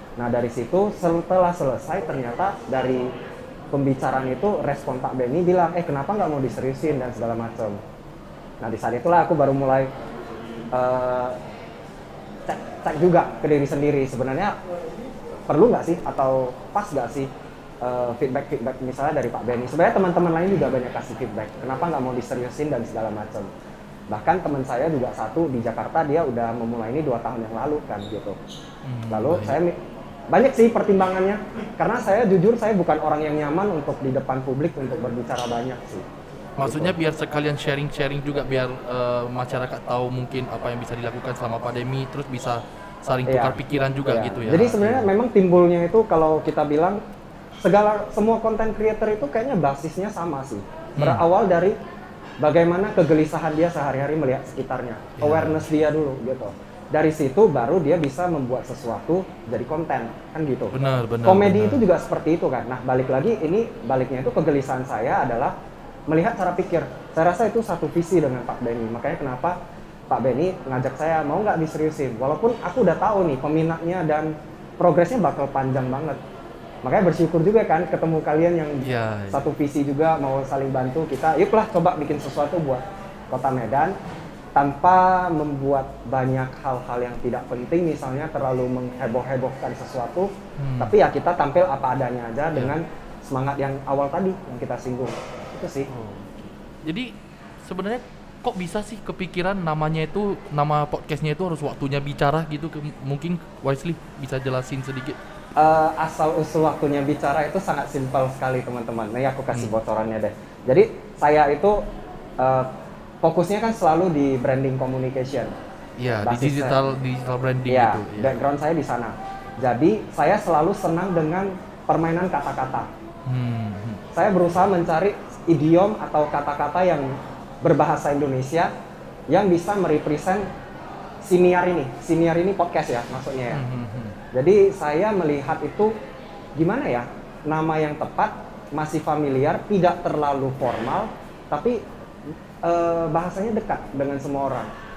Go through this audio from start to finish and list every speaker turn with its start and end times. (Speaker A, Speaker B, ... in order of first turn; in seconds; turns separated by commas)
Speaker A: 0.2-3.1, Speaker A: 3.7-7.8, Speaker A: 8.6-9.9, Speaker A: 10.7-11.4, Speaker A: 12.4-14.6, Speaker A: 15.5-17.3, Speaker A: 17.8-23.5, Speaker A: 24.1-28.4, Speaker B: 28.8-29.6, Speaker A: 29.1-29.8, Speaker A: 30.3-36.1, Speaker B: 36.6-45.1, Speaker A: 36.6-36.9, Speaker A: 43.2-47.0, Speaker A: 47.6-51.8, Speaker B: 51.0-51.2, Speaker A: 52.4-65.5, Speaker B: 55.2-55.6, Speaker B: 60.7-61.8, Speaker A: 66.1-69.6, Speaker A: 70.1-76.2, Speaker A: 76.8-84.0, Speaker B: 78.8-79.4, Speaker A: 84.5-95.9, Speaker B: 90.6-90.9, Speaker B: 95.9-97.1, Speaker B: 97.6-105.2, Speaker A: 105.5-111.8, Speaker A: 112.4-112.7, Speaker A: 113.2-115.5, Speaker B: 116.0-118.4, Speaker A: 116.2-116.8, Speaker A: 117.7-122.9, Speaker B: 123.3-124.0, Speaker A: 124.1-128.7, Speaker A: 129.3-130.5, Speaker A: 131.2-133.6, Speaker B: 133.5-134.2, Speaker A: 134.3-135.9, Speaker A: 136.6-144.7